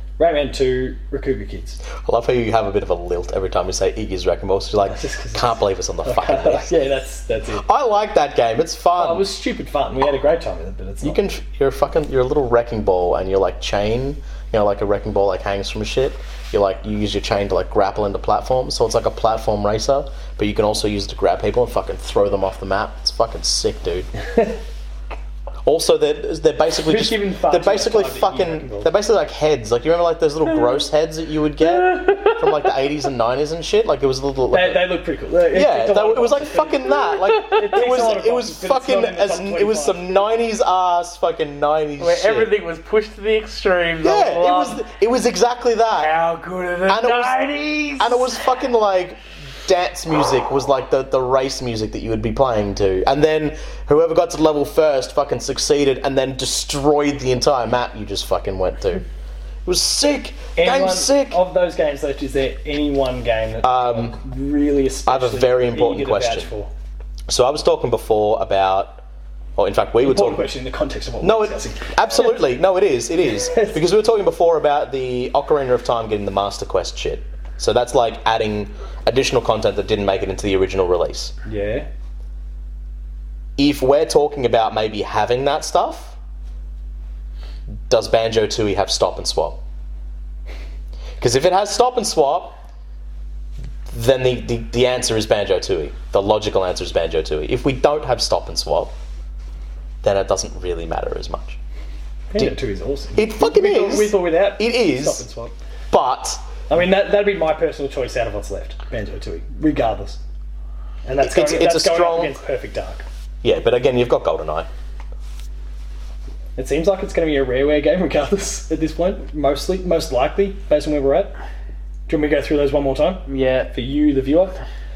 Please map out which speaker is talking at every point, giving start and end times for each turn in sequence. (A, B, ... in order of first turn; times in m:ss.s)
0:00.2-0:01.8 A
0:01.9-0:06.8 B
0:04.9-0:07.6 A
0:07.6-0:09.3 B
0:09.0-0:11.2 A
0:11.0-0:24.1 B
0:25.6-0:34.9 B
0:26.8-0:28.9 A
0:31.8-0:32.5 C
0:34.5-0:40.2 A
0:35.5-0:42.5 B
0:37.3-0:37.6 C
0:42.0-0:44.8 C
0:44.0-0:46.2 B
0:45.9-0:48.4 C
0:46.9-0:47.4 B
0:48.0-0:59.0 B
0:59.6-1:01.4 B
1:00.6-1:06.7 A
1:03.6-1:04.2 B
1:05.1-1:06.5 B
1:07.3-1:09.0 B
1:09.6-1:10.5 B
1:10.0-1:12.0 A
1:11.2-1:21.3 B
1:13.5-1:13.8 A
1:21.4-1:21.9 A
1:23.6-1:26.2 B
1:27.9-1:29.6 B
1:31.2-1:32.6 B
1:33.9-1:38.9 B
1:40.0-1:41.6 B
1:42.3-1:45.5 A
1:43.2-1:45.2 B
1:45.9-1:46.4 B
1:46.7-1:50.2 A
1:51.0-1:53.0 A
1:51.2-1:52.4 B
1:53.4-1:54.7 B
1:56.6-2:01.4 A
2:02.1-2:04.6 A
2:03.3-2:03.7 C